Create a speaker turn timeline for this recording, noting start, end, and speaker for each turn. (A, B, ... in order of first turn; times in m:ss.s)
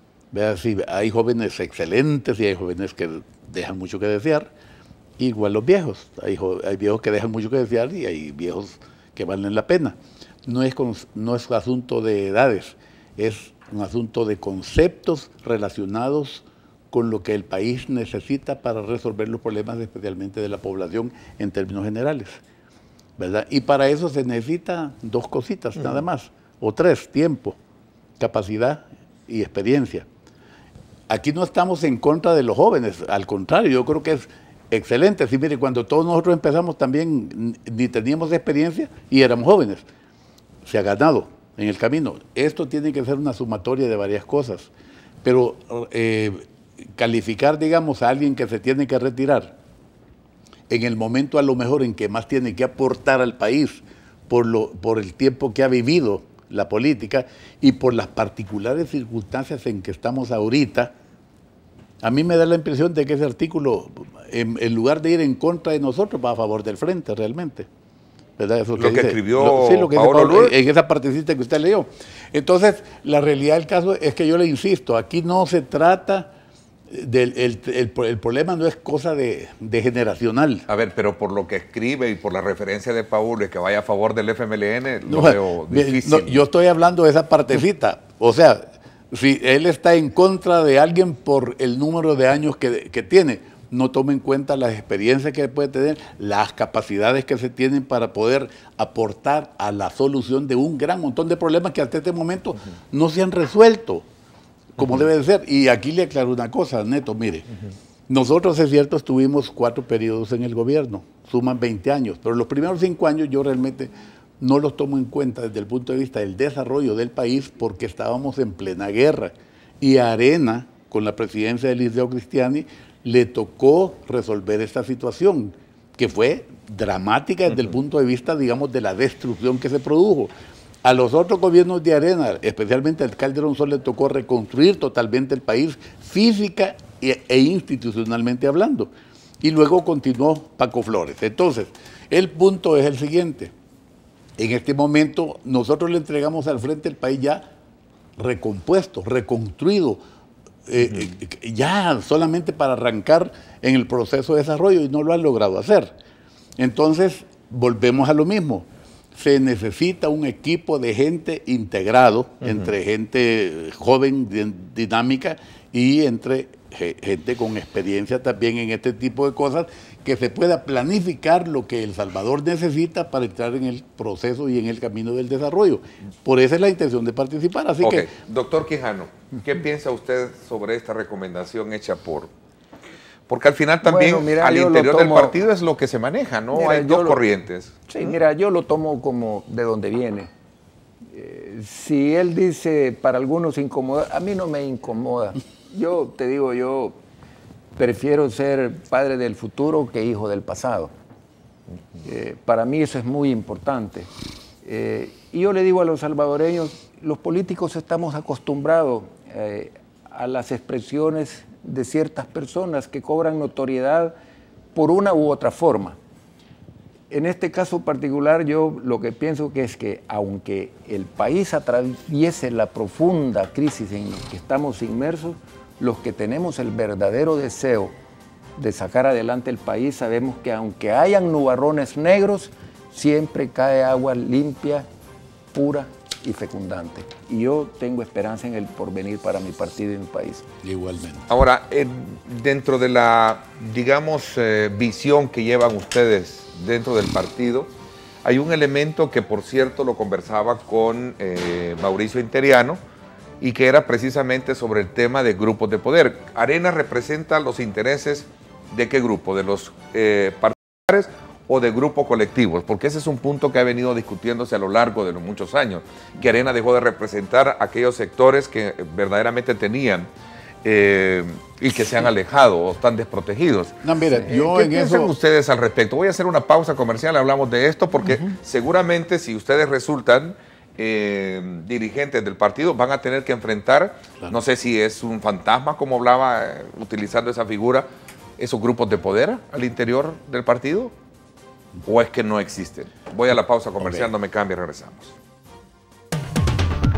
0:00.3-0:04.5 A
0:05.2-0:22.4 A
0:23.2-0:27.6 A
0:28.2-0:30.1 A
0:31.1-0:39.8 A
0:40.6-0:44.7 A
0:45.2-0:46.4 A
0:47.0-0:49.5 A
0:50.7-1:00.9 A
1:02.0-1:07.7 A
1:08.4-1:16.3 A
1:08.8-1:10.5 B
1:16.9-1:20.6 A
1:20.7-1:26.4 B
1:25.1-1:44.0 A
1:44.8-1:47.5 A
1:48.1-2:10.3 A
2:10.8-2:18.9 A
2:19.4-2:23.5 A
2:24.4-2:27.4 A
2:28.2-2:30.0 A
2:30.7-2:35.9 A
2:36.6-2:58.1 A
2:57.8-3:02.3 B
3:03.3-3:08.1 B
3:03.8-3:05.4 C
3:06.5-3:07.2 C
3:07.9-3:10.3 C
3:11.1-3:17.0 C
3:17.8-3:20.9 C
3:22.0-3:24.1 C
3:24.6-3:34.1 C
3:34.7-3:36.0 C
3:37.1-3:47.9 C
3:48.6-3:54.9 C
3:55.5-4:00.4 C
4:00.6-4:01.2 A
4:01.3-4:07.7 B
4:08.2-4:12.8 B
4:13.4-4:30.1 B
4:30.6-4:50.9 B
4:33.8-4:35.1 A
4:51.8-4:55.1 B
4:53.8-4:54.1 A